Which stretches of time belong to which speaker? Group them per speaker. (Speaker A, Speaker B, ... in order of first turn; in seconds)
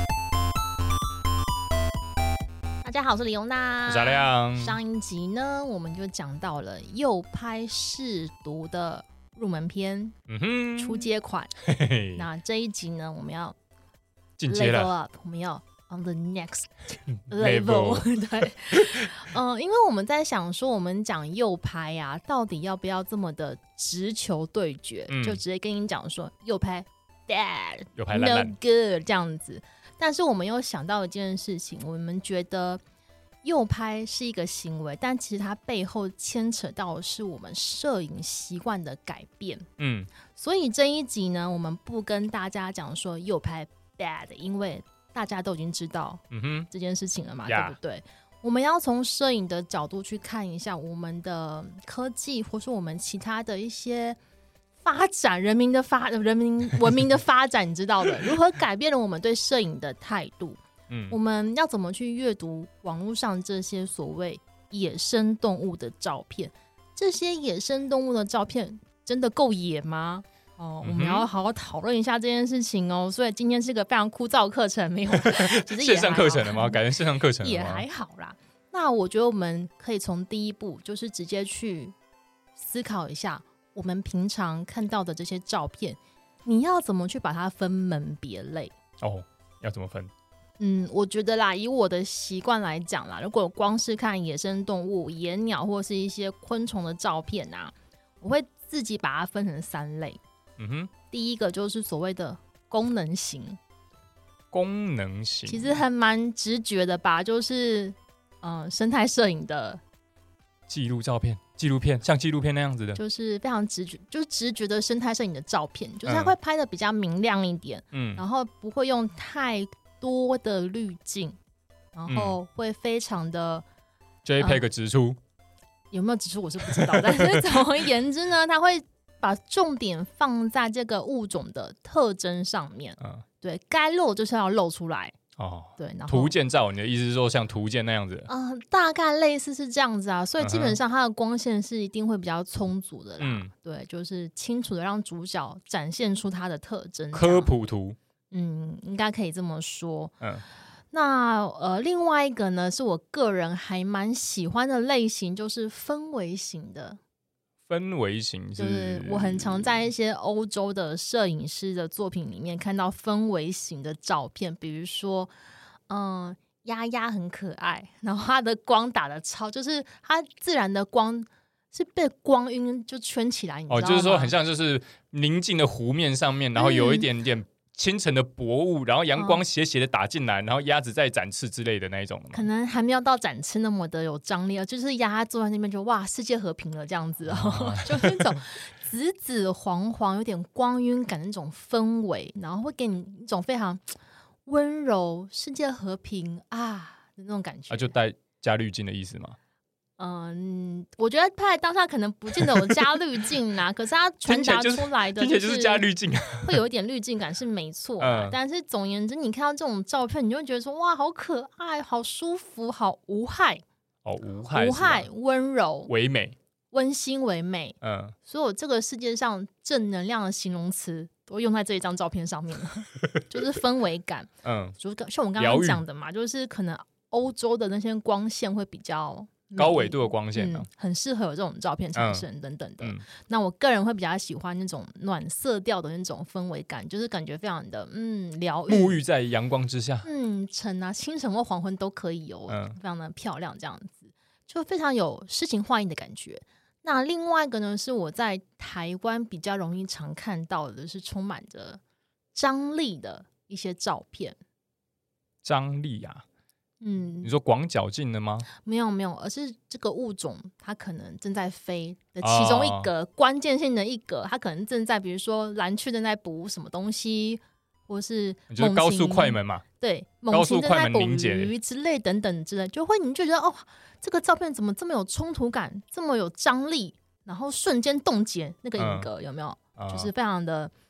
Speaker A: 2.8-10.2, 10.8-11.5, 12.2-13.6, 14.5-32.8, 33.4-39.7, 40.3-54.2, 54.8-60.6, 61.1-76.8, 77.4-81.9, 82.6-88.7, 90.6-100.2, 101.1-103.6, 105.5-109.8, 113.0-121.4, 122.0-123.7, 124.4-124.6, 125.9-135.2, 135.8-136.3, 138.3-147.6, 148.3-150.1, 150.9-157.0, 158.6-165.3, 165.9-174.3, 176.6-177.1, 179.2-179.4, 182.3-193.8, 194.5-197.9, 200.0-205.8, 206.4-213.6, 214.5-215.9, 216.7-239.0, 240.0-251.8, 252.3-254.4, 256.8-257.3, 258.5-280.7
Speaker B: 3.9-4.8, 10.3-11.1, 11.6-12.2, 14.4-14.9, 17.2-19.1, 25.1-25.4, 28.0-28.6, 39.8-40.1, 46.3-46.7, 47.5-47.8, 60.9-61.2, 70.8-71.3, 75.2-77.8, 89.0-90.1, 100.6-100.9, 104.5-105.8, 110.7-113.0, 116.0-116.3, 117.9-118.2, 122.1-122.4, 124.2-125.2, 126.8-127.5, 135.4-138.3, 140.4-140.8, 143.2-143.5, 147.1-148.0, 157.7-159.8, 173.7-182.5, 187.3-188.4, 197.7-199.4, 202.4-202.9, 204.3-206.6, 208.0-208.4, 214.1-215.1, 215.9-216.4, 217.8-218.2, 224.4-224.8, 225.4-225.8, 229.6-230.7, 231.9-232.2, 238.7-240.1, 242.5-242.8, 255.4-256.2, 257.2-258.5, 262.2-262.9, 268.5-269.6, 270.3-271.5, 278.8-279.1, 279.8-280.1